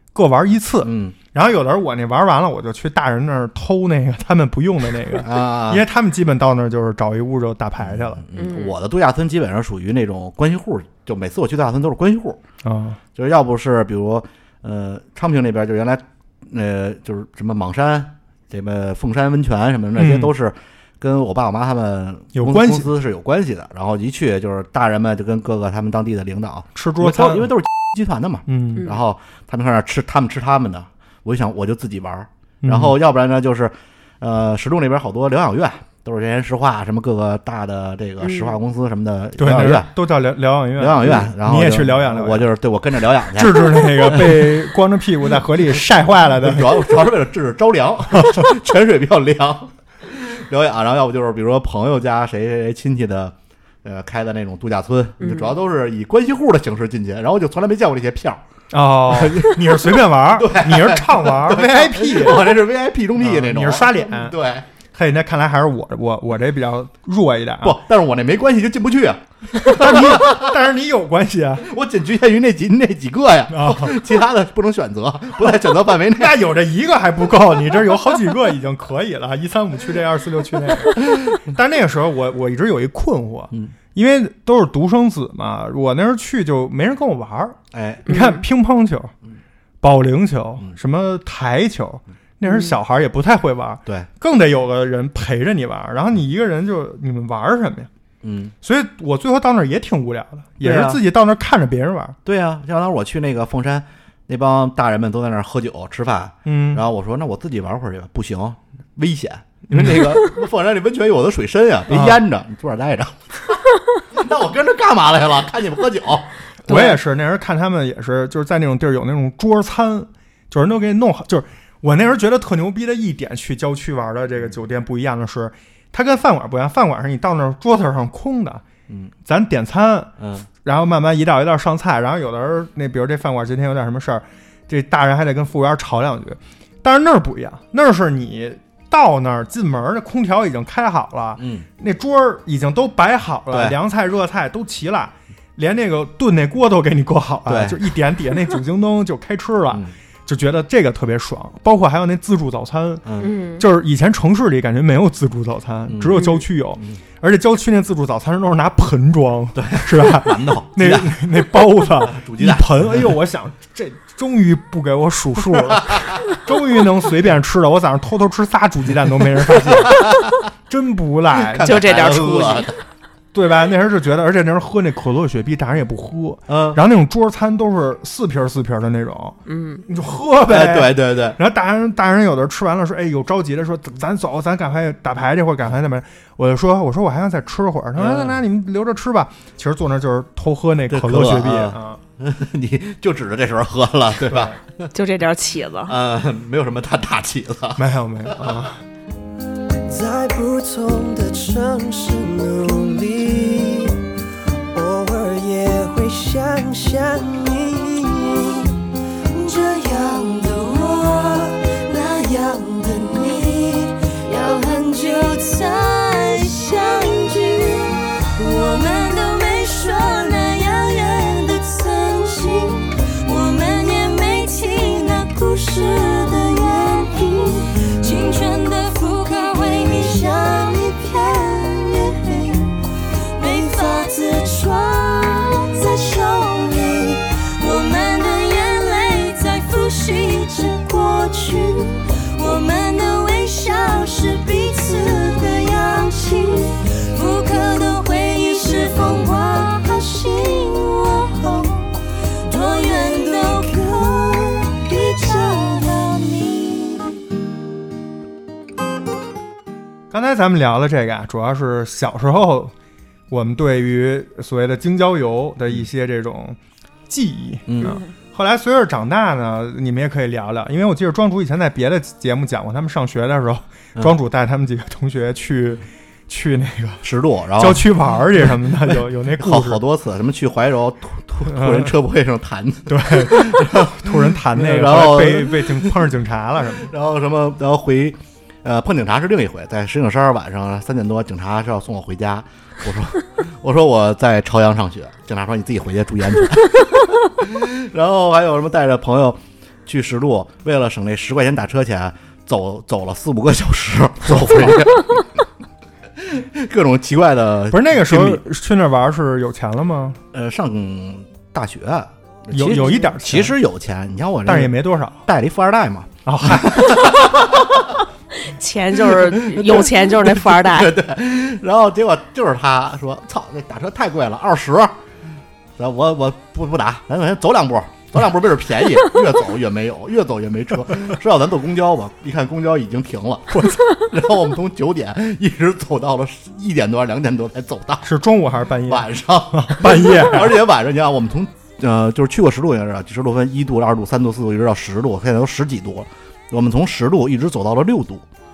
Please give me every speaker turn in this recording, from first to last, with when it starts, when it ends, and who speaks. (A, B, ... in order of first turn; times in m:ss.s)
0:00.1-0:08.2 A
0:00.8-0:01.2 B
0:05.2-0:05.8 B
0:07.8-0:12.4 B
0:08.3-0:08.7 C
0:12.6-0:13.0 A
0:13.1-0:39.9 B
0:20.0-0:20.3 A
0:22.3-0:22.9 A
0:26.7-0:27.6 A
0:28.5-0:28.8 A
0:32.6-0:33.0 A
0:38.2-0:38.5 C
0:39.4-0:42.5 A
0:40.8-0:44.6 B
0:43.3-0:47.0 A
0:46.4-0:58.4 B
0:48.2-0:48.4 A
0:55.2-0:55.5 C
0:58.7-1:02.6 A
0:59.1-1:04.7 B
1:03.2-1:04.3 A
1:04.9-1:07.8 A
1:07.6-1:10.6 B
1:09.6-1:11.6 A
1:11.6-1:16.4 B
1:13.5-1:14.0 A
1:16.1-1:29.1 A
1:21.0-1:21.3 B
1:27.7-1:28.1 B
1:28.1-1:28.4 C
1:29.8-1:37.9 A
1:32.4-1:32.7 C
1:38.2-1:38.5 B
1:38.6-1:42.2 A
1:40.6-1:41.0 B
1:42.2-1:53.6 B
1:46.4-1:46.8 A
1:49.7-1:50.1 A
1:51.9-1:52.2 A
1:54.1-1:56.3 B
1:56.7-2:08.6 A
1:56.7-1:57.0 C
2:09.2-2:10.1 A
2:10.2-2:10.5 B
2:10.6-2:33.0 A
2:21.4-2:21.6 B
2:23.5-2:23.8 B
2:27.5-2:27.8 B
2:33.0-2:33.3 B
2:33.2-2:33.6 C
2:33.6-2:50.0 A
2:35.9-2:37.0 B
2:39.5-2:43.2 B
2:45.5-2:46.2 B
2:49.4-2:50.4 B
2:50.7-2:51.8 A
2:51.3-2:52.8 B
2:51.6-2:52.7 C
2:53.3-2:59.4 A
2:56.5-2:56.8 B
2:59.5-2:59.8 C
2:59.9-3:12.0 A
3:00.5-3:01.4 B
3:08.0-3:08.4 B
3:10.9-3:14.9 B
3:14.3-3:14.6 A
3:14.9-3:16.0 C
3:15.8-3:18.6 B
3:17.8-3:18.8 A
3:19.9-3:24.0 D
3:24.7-4:17.2 D
4:20.1-4:22.7 A
4:23.3-4:26.6 A
4:27.1-4:37.0 A
4:27.7-4:28.0 B
4:37.0-4:46.0 B
4:37.6-4:39.8 A
4:41.4-4:41.9 A
4:42.9-4:46.9 A
4:46.8-5:05.4 B
5:06.2-5:08.4 B
5:07.7-5:10.2 A
5:10.3-5:17.8 B
5:12.5-5:13.6 A
5:14.4-5:15.2 A
5:16.2-5:17.0 A
5:18.4-5:20.9 C
5:18.9-5:25.0 B
5:25.8-5:38.1 B
5:33.5-5:33.9 A
5:38.0-5:40.6 A
5:38.8-5:48.2 B